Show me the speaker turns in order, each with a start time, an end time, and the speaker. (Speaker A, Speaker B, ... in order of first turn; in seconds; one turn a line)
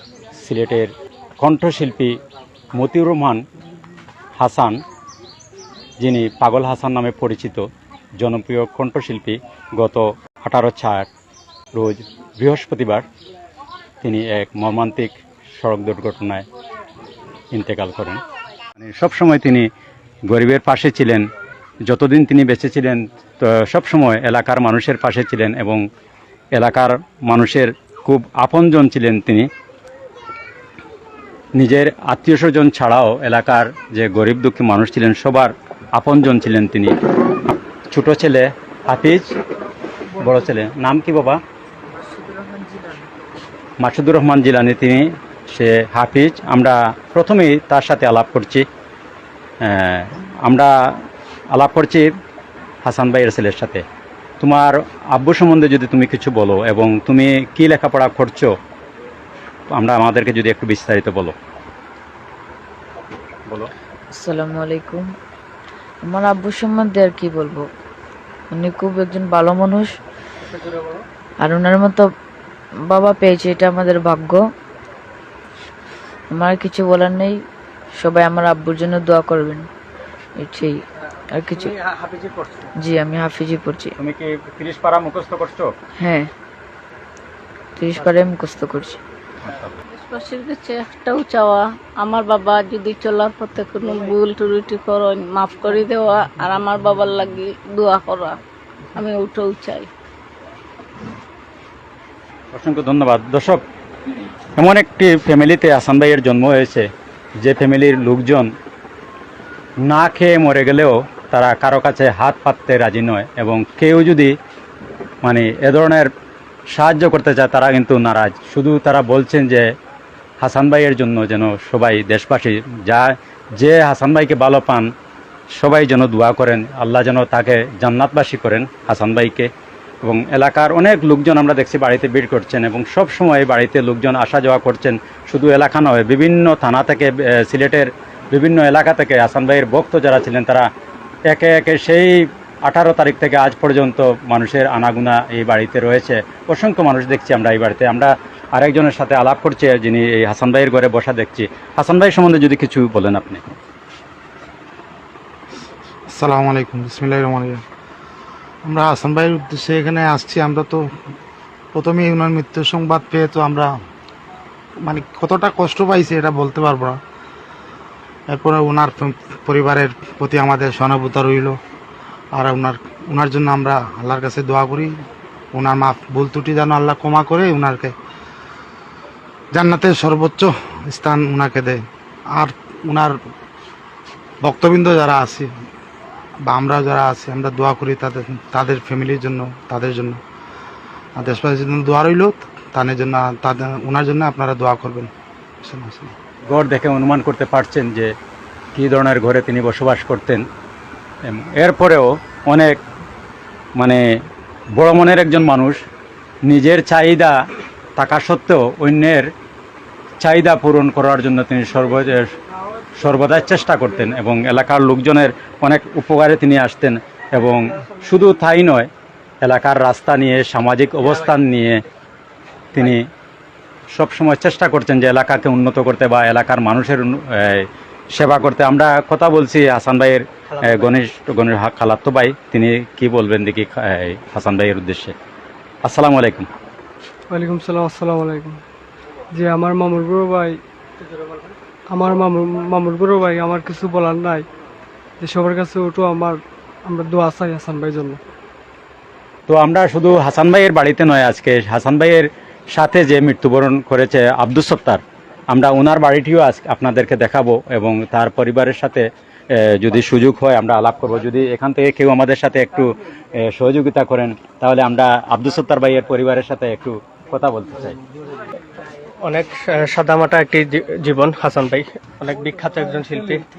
Speaker A: 0.4-2.2
Speaker A: 2.8-3.5
Speaker A: 4.4-4.8
Speaker A: 6.0-7.7
Speaker A: 8.2-11.1
Speaker A: 11.8-13.1
Speaker A: 14.0-16.5
Speaker A: 17.5-18.2
Speaker A: 18.8-19.7
Speaker A: 20.3-21.3
Speaker A: 21.9-25.8
Speaker A: 26.5-29.5
Speaker A: 31.6-37.0
Speaker A: 37.9-39.3
Speaker A: 40.2-41.4
Speaker B: 42.2-42.9
Speaker A: 43.8-48.7
Speaker A: 49.6-51.0
Speaker A: 51.5-52.1
Speaker A: 52.9-53.9
Speaker A: 54.4-58.5
Speaker A: 59.7-61.4
Speaker B: 64.2-65.1
Speaker B: 66.0-67.7
Speaker B: 68.5-69.9
Speaker C: 70.5-71.0
Speaker B: 71.4-72.1
Speaker B: 72.9-74.4
Speaker B: 76.3-77.3
Speaker B: 78.0-79.7
Speaker B: 80.4-80.8
Speaker B: 81.3-81.8
Speaker C: 81.5-82.7
Speaker B: 82.8-83.9
Speaker A: 84.0-85.7
Speaker B: 86.0-86.3
Speaker B: 87.8-89.0
Speaker A: 89.5-89.7
Speaker D: 89.9-98.4
Speaker D: 99.0-99.9
Speaker A: 102.5-103.6
Speaker A: 104.6-106.9
Speaker A: 107.4-108.5
Speaker A: 109.8-114.3
Speaker A: 115.2-116.1
Speaker A: 116.7-119.7
Speaker A: 120.4-124.9
Speaker A: 125.6-129.5
Speaker A: 130.0-140.7
Speaker A: 141.3-153.4
Speaker E: 156.1-157.6
Speaker E: 158.7-160.8
Speaker E: 161.7-163.7
Speaker E: 164.8-167.0
Speaker E: 168.3-171.6
Speaker E: 172.3-175.0
Speaker E: 175.5-177.9
Speaker E: 179.5-181.8
Speaker E: 182.3-183.2
Speaker E: 184.4-185.5
Speaker E: 186.5-190.2
Speaker E: 191.2-195.1
Speaker E: 195.6-196.1
Speaker A: 196.5-198.1
Speaker A: 198.8-200.5
Speaker A: 201.3-202.8
Speaker A: 204.8-205.8
Speaker A: 206.4-207.3
Speaker A: 208.0-209.3
Speaker A: 210.2-212.3
Speaker A: 213.0-218.9
Speaker A: 219.4-221.8
Speaker A: 222.7-223.0
Speaker A: 223.9-235.2
Speaker C: 230.5-230.9
Speaker A: 235.8-236.5
Speaker F: 237.3-238.6
Speaker F: 239.4-240.5
Speaker C: 241.1-241.6
Speaker F: 241.9-244.4
Speaker F: 245.2-248.2
Speaker A: 249.5-262.9
Speaker A: 263.4-268.0
Speaker C: 269.2-273.4